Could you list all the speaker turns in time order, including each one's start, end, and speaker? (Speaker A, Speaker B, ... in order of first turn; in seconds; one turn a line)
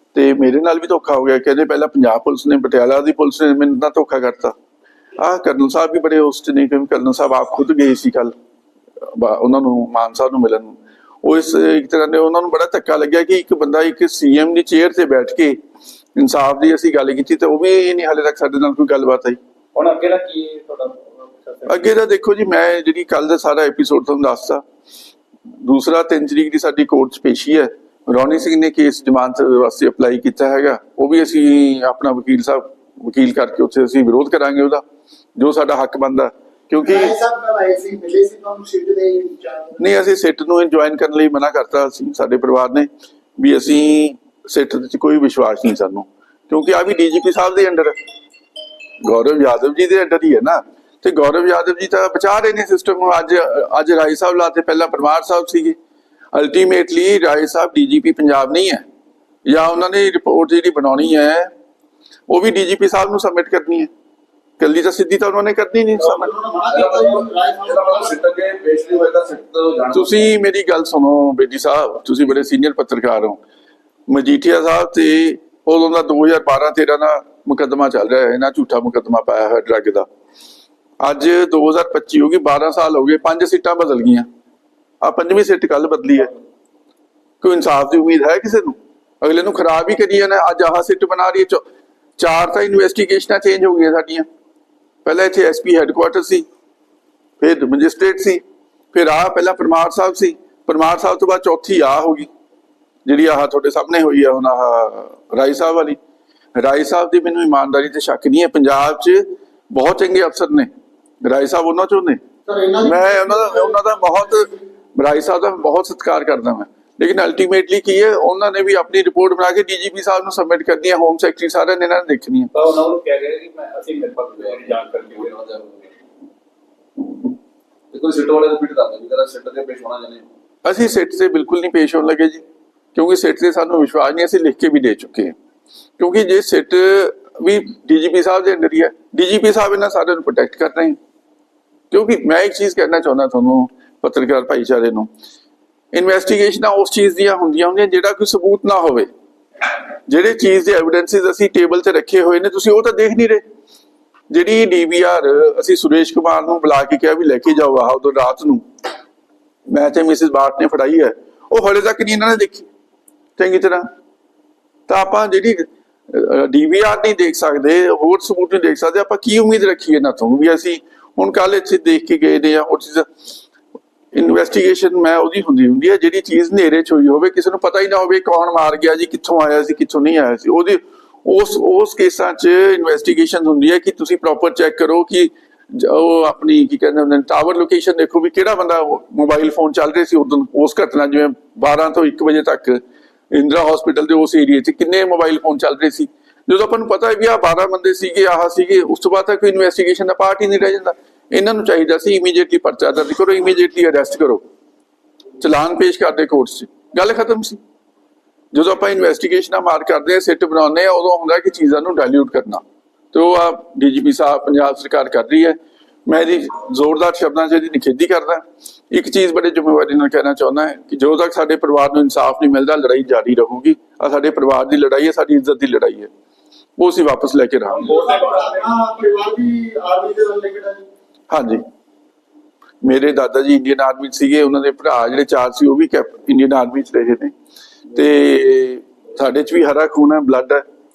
Speaker A: 0.1-4.5
Speaker A: 5.2-8.3
Speaker A: 9.0-15.6
Speaker A: 16.1-19.4
Speaker B: 19.7-21.7
Speaker A: 21.7-24.6
Speaker A: 25.6-34.8
Speaker A: 35.4-37.1
Speaker C: 36.8-39.8
Speaker A: 39.8-48.0
Speaker A: 49.0-55.8
Speaker A: 56.3-58.8
Speaker A: 59.5-61.5
Speaker A: 62.3-63.9
Speaker A: 64.6-66.3
Speaker C: 66.0-68.2
Speaker D: 66.7-70.3
Speaker A: 69.9-73.4
Speaker A: 74.1-80.1
Speaker A: 81.0-84.3
Speaker A: 85.0-86.3
Speaker A: 87.4-91.6
Speaker A: 92.2-94.2
Speaker A: 95.0-96.5
Speaker A: 97.4-98.4
Speaker A: 98.9-102.3
Speaker A: 103.0-106.0
Speaker A: 106.6-110.7
Speaker A: 111.2-112.2
Speaker C: 112.5-114.6
Speaker A: 112.8-122.5
Speaker B: 122.5-125.2
Speaker D: 124.3-125.9
Speaker D: 127.9-130.2
Speaker A: 130.6-132.4
Speaker A: 132.9-135.3
Speaker A: 136.0-141.0
Speaker A: 141.9-145.1
Speaker A: 145.9-149.1
Speaker A: 150.1-153.4
Speaker A: 154.3-158.6
Speaker A: 159.7-162.7
Speaker A: 163.4-163.8
Speaker A: 164.9-173.1
Speaker A: 174.1-192.8
Speaker A: 193.3-204.4
Speaker A: 205.4-207.6
Speaker A: 208.5-212.6
Speaker A: 213.1-226.1
Speaker A: 226.8-227.9
Speaker C: 227.8-230.8
Speaker A: 231.3-231.6
Speaker A: 232.8-237.3
Speaker A: 237.9-240.6